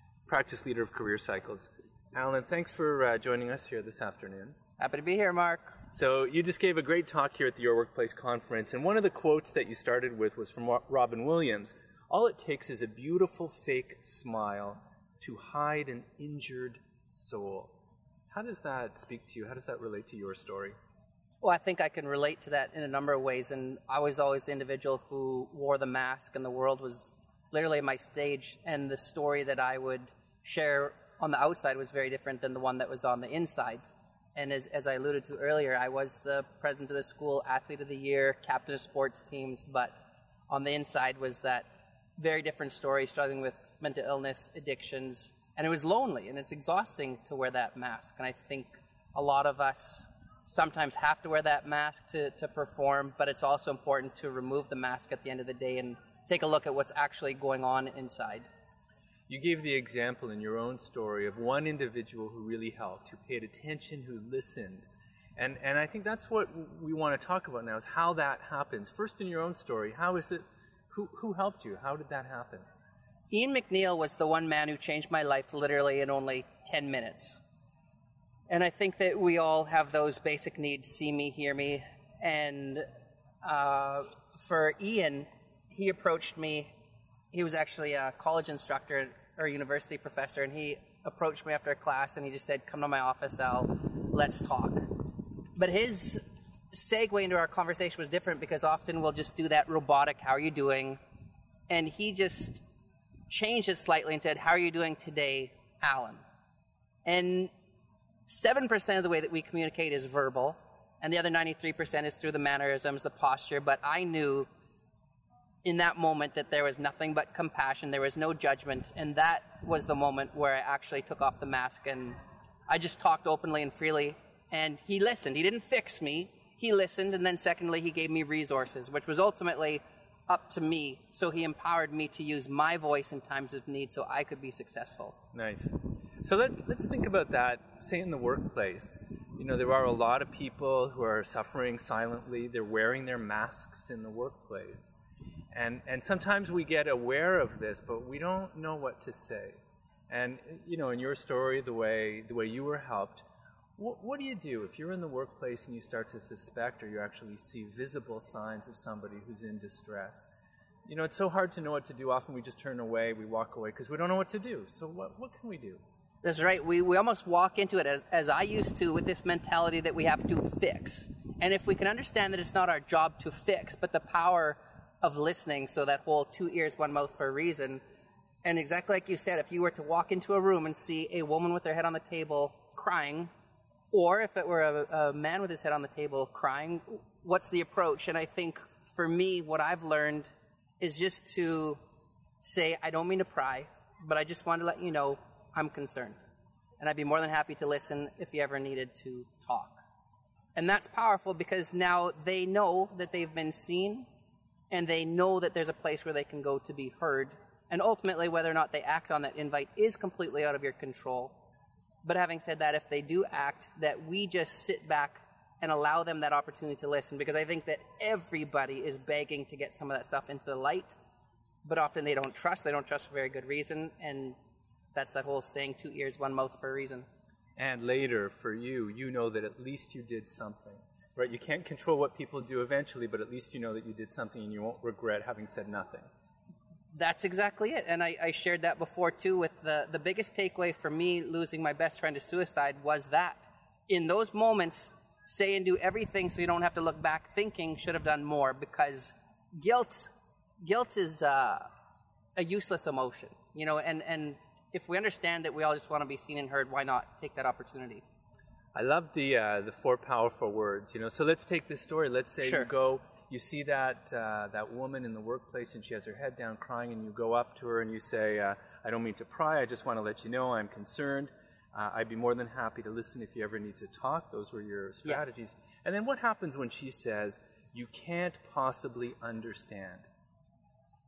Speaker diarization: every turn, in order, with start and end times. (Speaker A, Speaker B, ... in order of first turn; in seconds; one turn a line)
Speaker A: 0.3-4.5
Speaker B: 4.8-5.8
Speaker A: 5.9-17.7
Speaker A: 18.3-20.8
Speaker B: 21.4-40.0
Speaker B: 40.5-41.7
Speaker B: 42.2-58.5
Speaker A: 59.3-64.9
Speaker A: 65.4-72.7
Speaker B: 73.3-77.4
Speaker B: 78.5-82.9
Speaker B: 83.4-86.7
Speaker B: 87.3-94.9
Speaker B: 95.6-101.0
Speaker B: 101.7-102.6
Speaker B: 103.3-106.2
Speaker B: 107.0-107.5
Speaker B: 108.3-114.5
Speaker B: 115.6-135.2
Speaker A: 135.3-145.0
Speaker A: 145.5-149.6
Speaker A: 150.1-153.3
Speaker A: 153.8-160.3
Speaker A: 160.9-165.8
Speaker B: 166.2-177.8
Speaker B: 178.4-183.3
Speaker B: 183.9-191.8
Speaker B: 192.4-196.2
Speaker B: 196.8-199.8
Speaker B: 200.6-204.1
Speaker B: 204.7-211.4
Speaker B: 212.1-221.0
Speaker B: 221.6-224.4
Speaker B: 224.9-227.1
Speaker A: 227.6-236.1
Speaker B: 236.9-251.7
Speaker B: 252.4-258.0
Speaker A: 258.8-280.1
Speaker B: 262.4-262.7